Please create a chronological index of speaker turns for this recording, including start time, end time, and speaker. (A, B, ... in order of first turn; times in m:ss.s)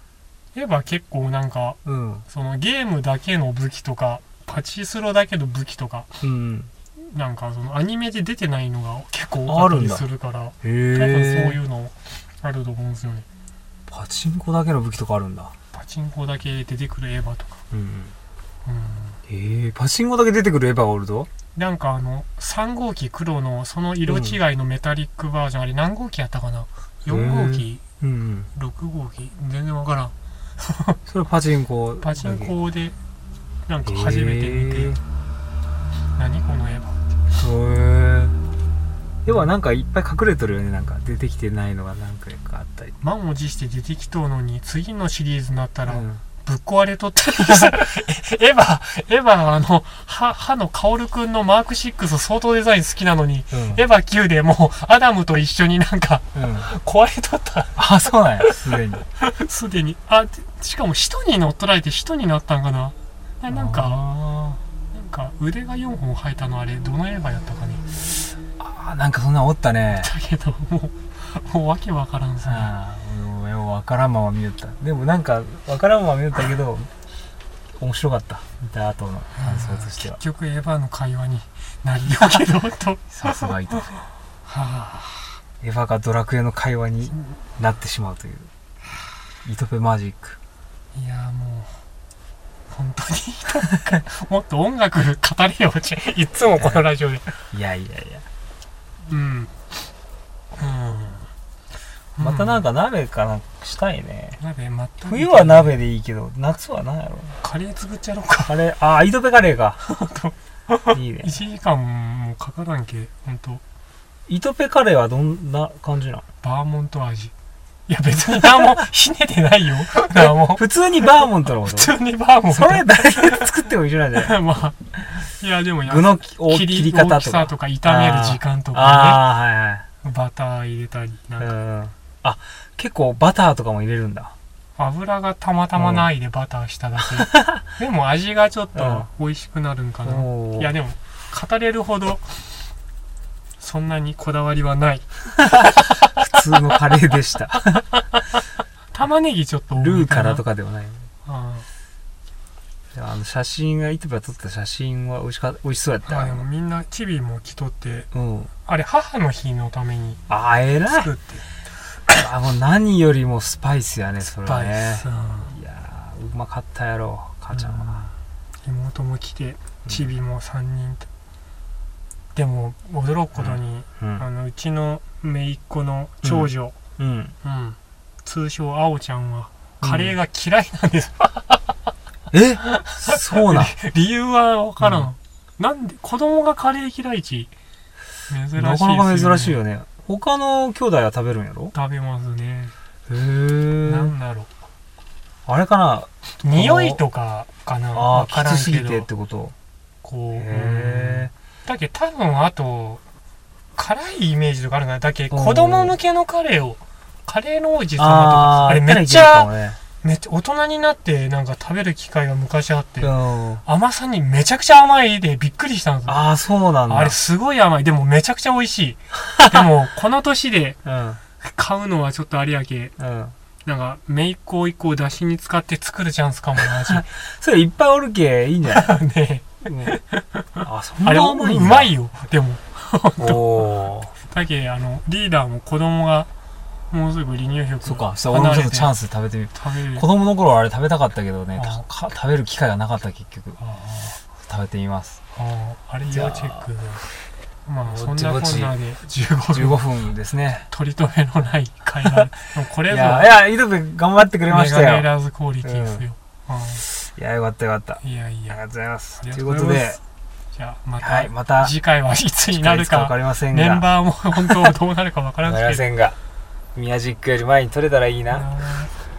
0:00.5-0:06.1 A
0:01.8-0:02.2 B
0:06.2-0:06.7 B
0:07.0-0:13.2 A
0:09.4-0:10.1 B
0:10.6-0:11.6 B
0:13.9-0:15.5 B
0:15.7-0:17.6 A
0:17.7-0:18.1 B
0:18.6-0:19.2 A
0:19.3-0:21.3 B
0:21.5-0:27.8 A
0:24.0-0:24.4 B
0:27.1-0:28.5 B
0:28.5-0:31.0 A
0:31.1-0:32.5 B
0:32.0-0:33.0 A
0:33.7-0:35.0 A
0:33.8-0:35.0 B
0:36.2-0:37.0 A
0:37.3-0:38.4 B
0:39.2-0:43.0 B
0:43.0-0:58.6 A
0:45.9-0:46.2 B
0:53.5-0:53.8 B
0:56.3-0:56.7 B
0:57.8-0:59.0 B
0:59.2-1:04.0 A
1:03.5-1:04.6 B
1:04.9-1:08.0 A
1:08.6-1:10.1 B
1:10.0-1:12.7 A
1:12.4-1:16.9 B
1:17.8-1:20.2 B
1:19.4-1:25.4 A
1:23.1-1:24.0 B
1:25.6-1:28.5 B
1:29.4-1:30.4 B
1:30.9-1:31.8 A
1:32.7-1:37.3 A
1:36.6-1:36.8 B
1:37.5-1:38.2 B
1:39.1-1:39.5 A
1:40.6-1:41.3 A
1:42.2-1:42.6 A
1:42.2-1:44.4 B
1:44.4-1:45.7 A
1:45.0-1:47.4 B
1:47.4-1:48.6 A
1:48.4-1:49.8 B
1:49.8-1:53.6 A
1:50.9-1:51.4 B
1:54.3-1:56.2 B
1:56.4-1:57.3 A
1:57.9-2:00.6 A
2:00.2-2:01.9 B
2:01.6-2:03.6 A
2:02.5-2:04.4 B
2:04.2-2:09.2 A
2:05.8-2:09.8 B
2:10.0-2:11.5 A
2:11.4-2:14.3 B
2:14.8-2:22.5 A
2:15.8-2:16.1 B
2:17.2-2:17.6 B
2:18.7-2:19.1 B
2:20.0-2:20.7 B
2:23.6-2:26.3 A
2:26.2-2:27.9 B
2:27.9-2:28.2 A
2:28.9-2:30.4 A
2:29.7-2:31.0 B
2:31.2-2:31.6 A
2:32.9-2:36.4 B
2:36.1-2:38.1 A
2:38.1-2:38.5 B
2:38.6-2:40.2 A
2:40.3-2:41.1 B
2:40.9-2:41.4 A
2:42.1-2:48.1 B
2:44.2-2:45.5 A
2:47.5-2:48.1 A
2:48.6-2:51.1 A
2:52.3-2:56.8 A
2:53.4-2:54.2 B
2:56.2-2:57.3 B
2:57.4-3:01.6 A
2:59.8-3:00.1 B
3:02.3-3:03.7 B
3:02.6-3:07.5 A
3:04.8-3:05.1 B
3:08.3-3:09.6 A
3:08.6-3:11.7 B
3:11.7-3:12.7 A
3:13.1-3:14.1 B
3:13.8-3:14.5 A
3:15.4-3:17.0 B
3:16.4-3:19.1 A
3:17.9-3:19.5 B
3:20.0-3:23.0 A
3:20.3-3:21.3 B
3:23.8-3:29.5 A
3:25.3-3:25.9 B
3:28.0-3:29.8 B
3:30.0-3:33.1 A
3:33.0-3:33.6 B
3:33.6-3:36.2 A
3:36.1-3:37.2 B
3:36.9-3:40.8 A
3:40.8-3:41.2 B
3:41.4-3:42.9 A
3:43.0-3:43.3 B
3:43.6-3:47.1 A
3:46.6-3:49.0 B
3:48.7-3:56.3 A
3:49.6-3:49.9 B
3:50.6-3:51.9 B
3:53.2-3:54.1 B
3:56.9-3:58.9 A
3:57.8-4:03.6 B
3:59.5-4:00.1 A
4:01.6-4:01.8 A
4:03.6-4:04.2 A
4:04.4-4:05.2 B
4:05.3-4:07.0 A
4:06.1-4:06.7 B
4:07.6-4:09.8 A
4:07.9-4:08.7 B
4:09.5-4:10.7 B
4:10.7-4:13.3 A
4:12.9-4:15.1 B
4:14.5-4:16.8 A
4:15.6-4:16.0 B
4:16.8-4:20.0 B
4:18.0-4:18.6 A
4:19.2-4:20.0 A
4:20.5-4:25.8 A
4:21.0-4:21.7 B
4:22.5-4:24.7 B
4:25.4-4:26.2 B
4:26.7-4:28.5 B
4:28.3-4:28.9 A